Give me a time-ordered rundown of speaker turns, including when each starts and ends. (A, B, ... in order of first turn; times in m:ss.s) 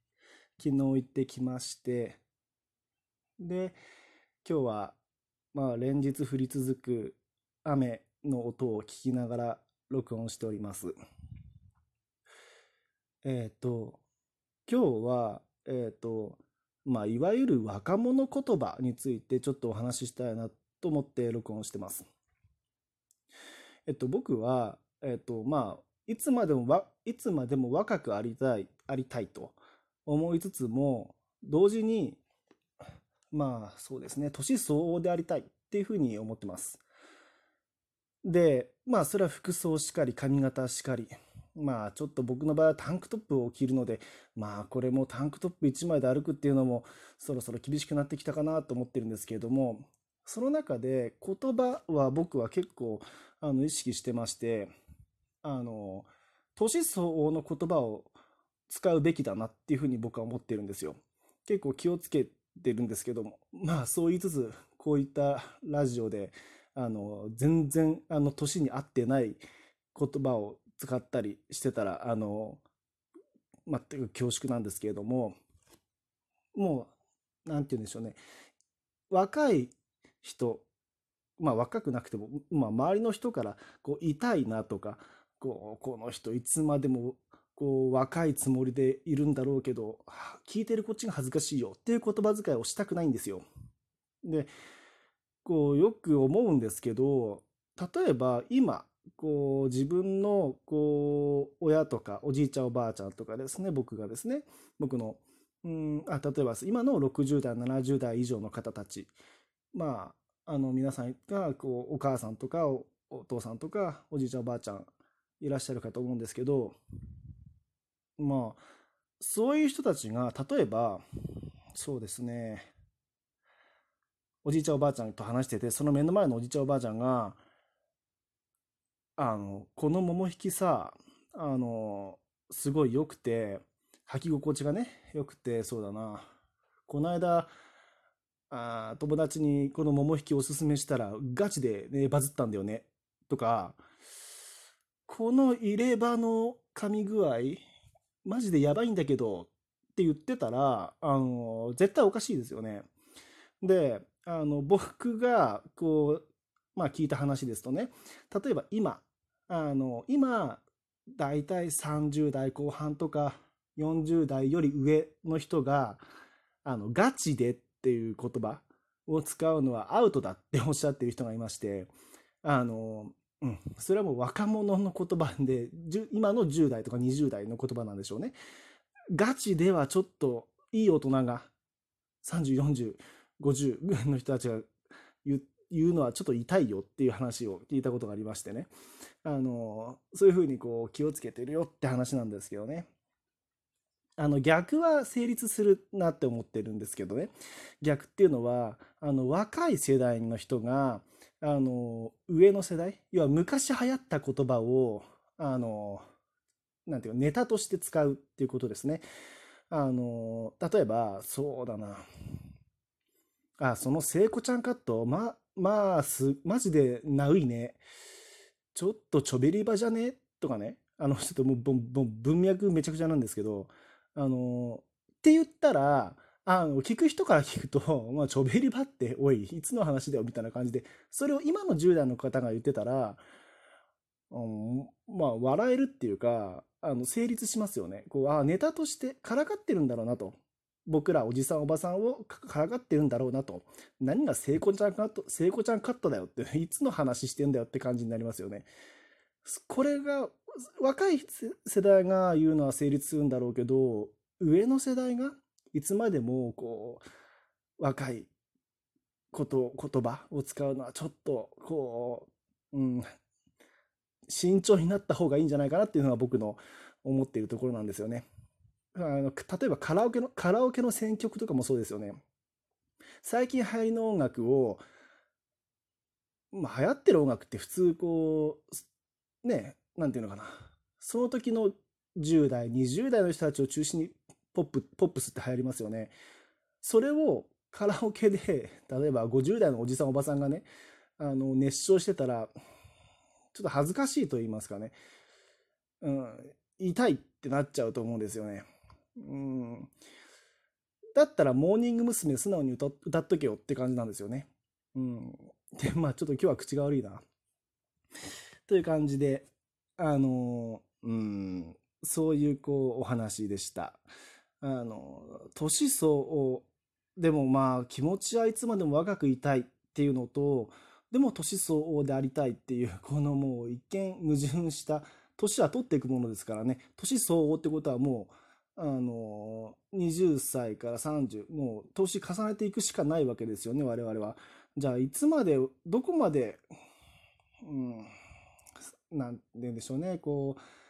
0:00.6-0:02.2 A
0:03.4-0:03.8 A
0:04.4-0:05.0 A
0:05.5-0:10.9 A
0:13.2-0:14.0 A
0:14.7-0:22.1 A
0:23.9-0:32.2 A
0:33.3-0:36.8 A
0:38.2-0:54.7 A
0:55.4-0:58.1 A
0:58.7-1:09.4 A
1:10.0-1:12.6 A
1:13.7-1:15.4 A
1:16.6-1:16.9 A
1:17.5-1:18.2 A
1:19.1-1:20.7 A
1:21.4-1:33.4 A
1:34.2-1:34.5 A
1:35.4-1:49.1 A
1:49.7-1:56.8 A
1:58.2-1:58.6 A
1:59.2-2:01.0 A
2:01.8-2:02.7 A
2:04.4-2:07.4 A
2:09.2-2:16.3 A
2:16.9-2:17.5 A
2:18.5-2:23.8 A
2:25.1-2:27.6 A
2:28.2-2:32.9 A
2:33.6-2:40.6 A
2:41.2-2:46.0 A
2:46.6-2:51.9 A
2:52.4-2:58.4 A
2:59.1-3:01.5 A
3:02.2-3:04.7 A
3:05.2-3:08.7 A
3:09.2-3:12.9 A
3:14.2-3:26.0 A
3:26.9-3:29.0 A
3:29.7-3:32.0 A
3:33.6-3:37.8 A
3:38.7-3:53.2 A
3:54.3-4:08.7 A
4:09.4-4:17.0 A
4:17.8-4:18.3 A
4:19.3-4:23.0 A
4:24.3-4:28.3 A
4:29.0-4:32.2 A
4:33.2-4:34.8 A
4:36.5-4:38.8 A
4:39.4-4:46.2 A
4:46.8-4:50.7 A
4:51.2-4:52.5 A
4:53.5-4:55.0 A
4:56.0-4:59.9 A
5:01.2-5:07.2 A
5:08.7-5:09.5 A
5:10.0-5:14.0 A
5:14.6-5:36.6 A
5:37.6-5:38.1 A
5:39.1-5:40.6 A